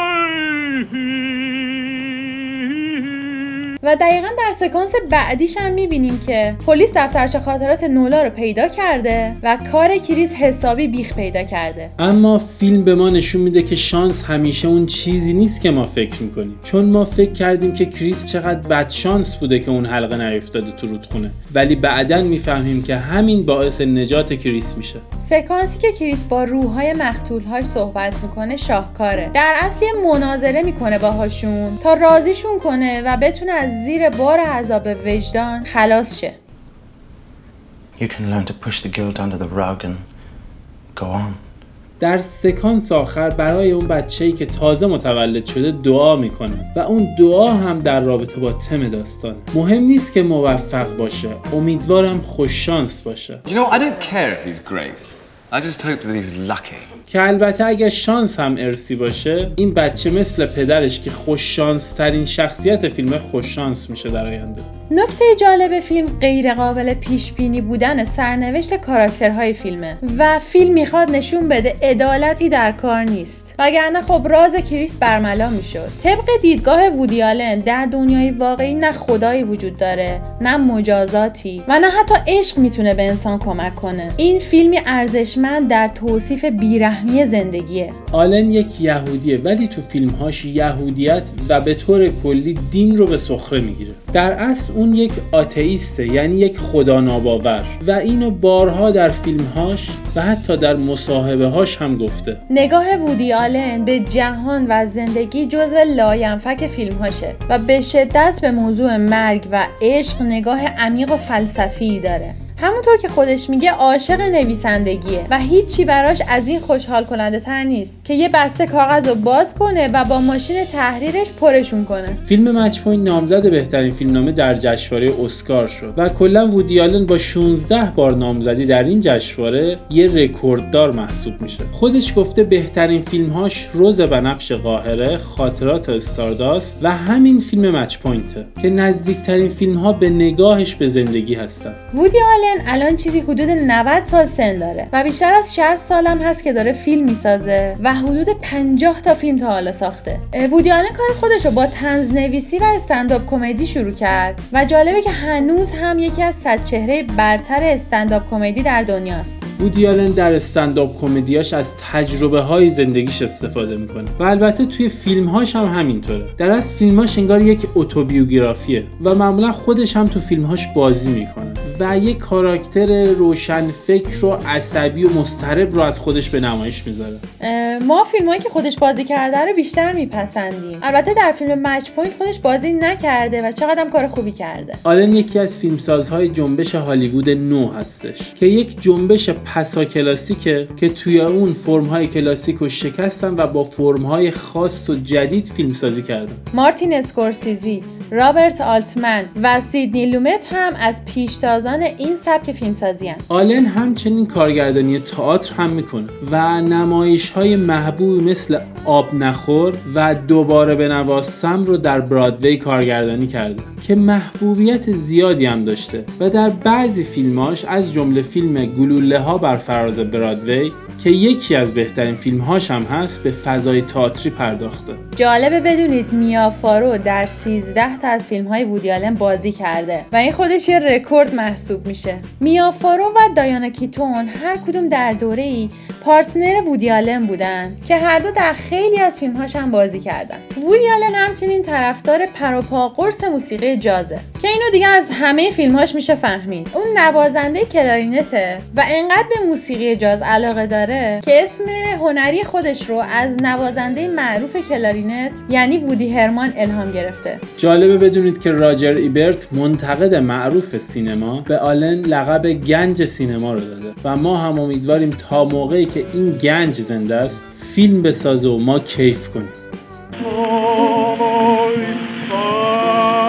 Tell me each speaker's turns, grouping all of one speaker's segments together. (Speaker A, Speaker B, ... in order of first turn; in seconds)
Speaker A: 3.8-11.9, 25.2-36.4, 64.9-88.0, 102.5-122.2, 141.9-159.4, 177.4-184.8, 196.5-203.2, 225.2-257.4
Speaker B: 12.0-25.0, 42.0-53.4, 57.1-64.7, 88.1-102.4, 122.3-141.8, 159.6-177.2, 184.8-196.4, 203.3-225.0, 257.6-269.5
Speaker C: 38.0-40.0, 40.9-41.4
Speaker D: 53.5-56.9